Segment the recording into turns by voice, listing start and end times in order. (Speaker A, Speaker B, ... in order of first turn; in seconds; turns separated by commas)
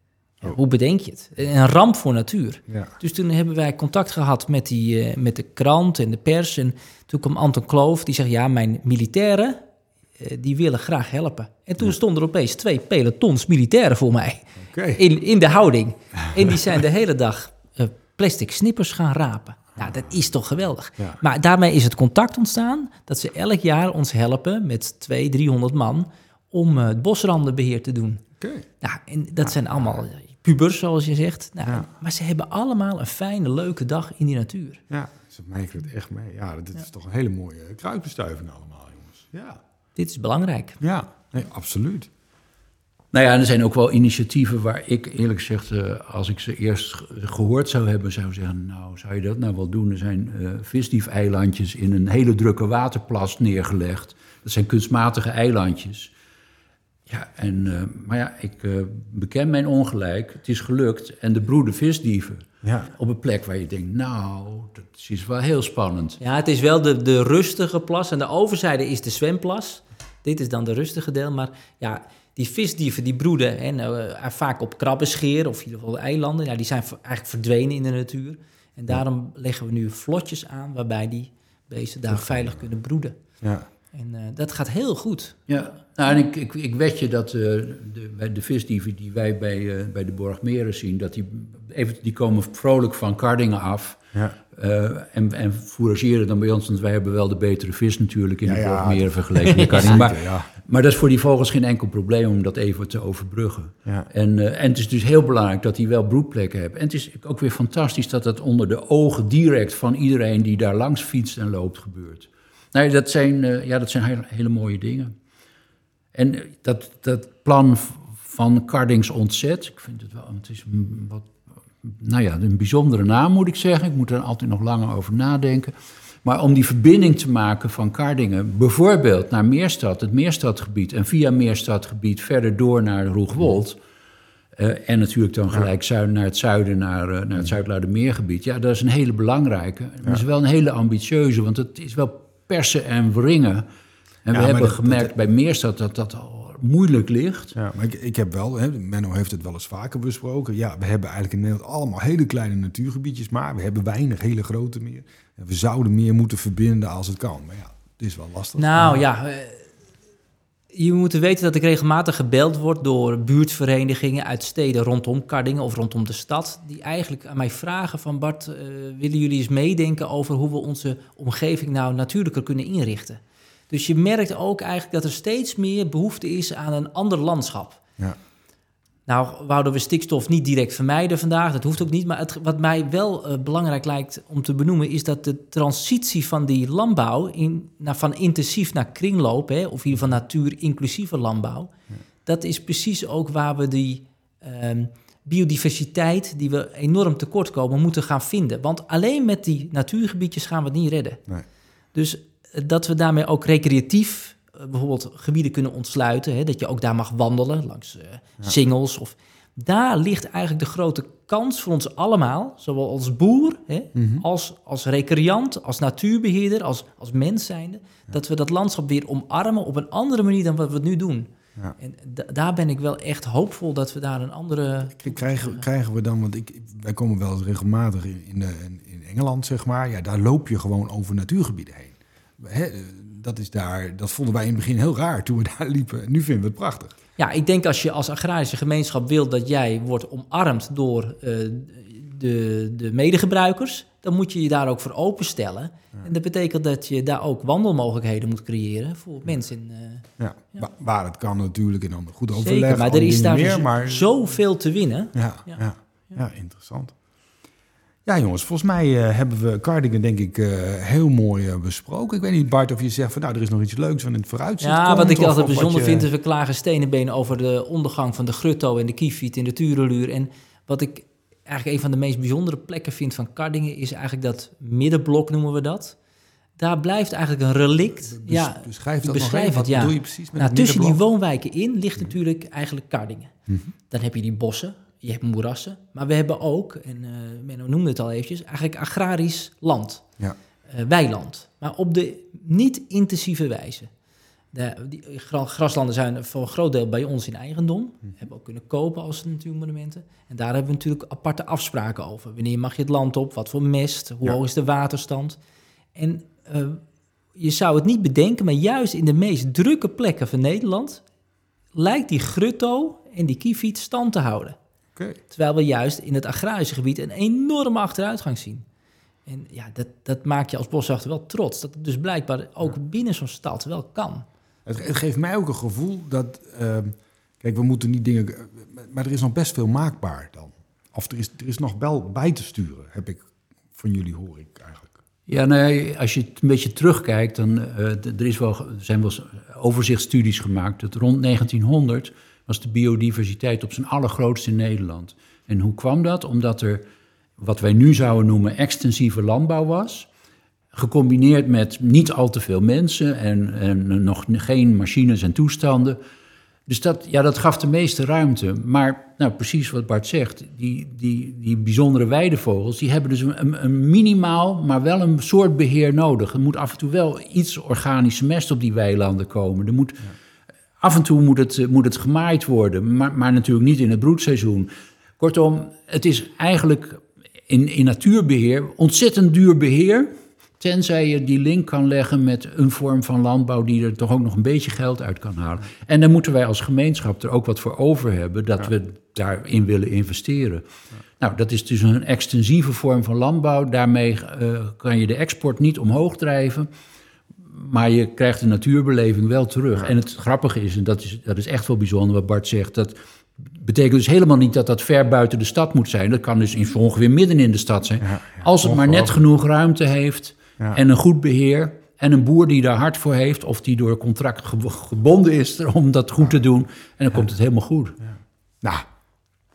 Speaker A: 0.4-9.6, Speaker B: 2.7-2.9, Speaker A: 10.2-28.2, Speaker B: 14.6-15.0, Speaker B: 28.4-28.6, Speaker A: 28.8-34.8, Speaker B: 34.9-39.6, Speaker A: 40.0-40.8, Speaker B: 40.8-42.1, Speaker C: 43.1-56.1, Speaker C: 57.1-66.2, Speaker B: 62.6-62.9, Speaker A: 66.2-83.2, Speaker B: 82.1-82.5, Speaker B: 83.4-83.7, Speaker A: 83.9-85.4, Speaker C: 85.5-115.1, Speaker B: 98.4-100.5, Speaker C: 116.1-121.3, Speaker C: 121.8-133.8, Speaker C: 134.6-143.7, Speaker C: 144.2-147.6, Speaker B: 144.3-145.1, Speaker B: 147.5-159.0, Speaker A: 158.6-159.6, Speaker A: 160.7-177.8, Speaker A: 179.1-191.7, Speaker A: 192.2-201.2, Speaker A: 201.9-225.6, Speaker B: 213.9-214.2, Speaker B: 224.9-236.9, Speaker A: 237.2-250.7, Speaker B: 250.2-254.1, Speaker A: 252.4-255.6, Speaker B: 255.1-256.9, Speaker B: 258.0-266.1, Speaker A: 264.6-276.0, Speaker A: 276.6-283.4, Speaker B: 278.0-281.0, Speaker A: 283.9-290.1, Speaker A: 290.7-293.9, Speaker A: 294.5-305.4, Speaker A: 305.9-306.8, Speaker A: 307.4-311.0, Speaker A: 311.7-314.6, Speaker A: 315.3-318.6, Speaker A: 319.2-324.2, Speaker B: 324.6-334.9, Speaker C: 335.3-346.8, Speaker C: 347.4-350.1, Speaker C: 350.7-356.0, Speaker C: 356.7-370.1, Speaker C: 370.8-390.6, Speaker C: 391.2-396.7, Speaker C: 397.5-418.0, Speaker B: 408.0-409.1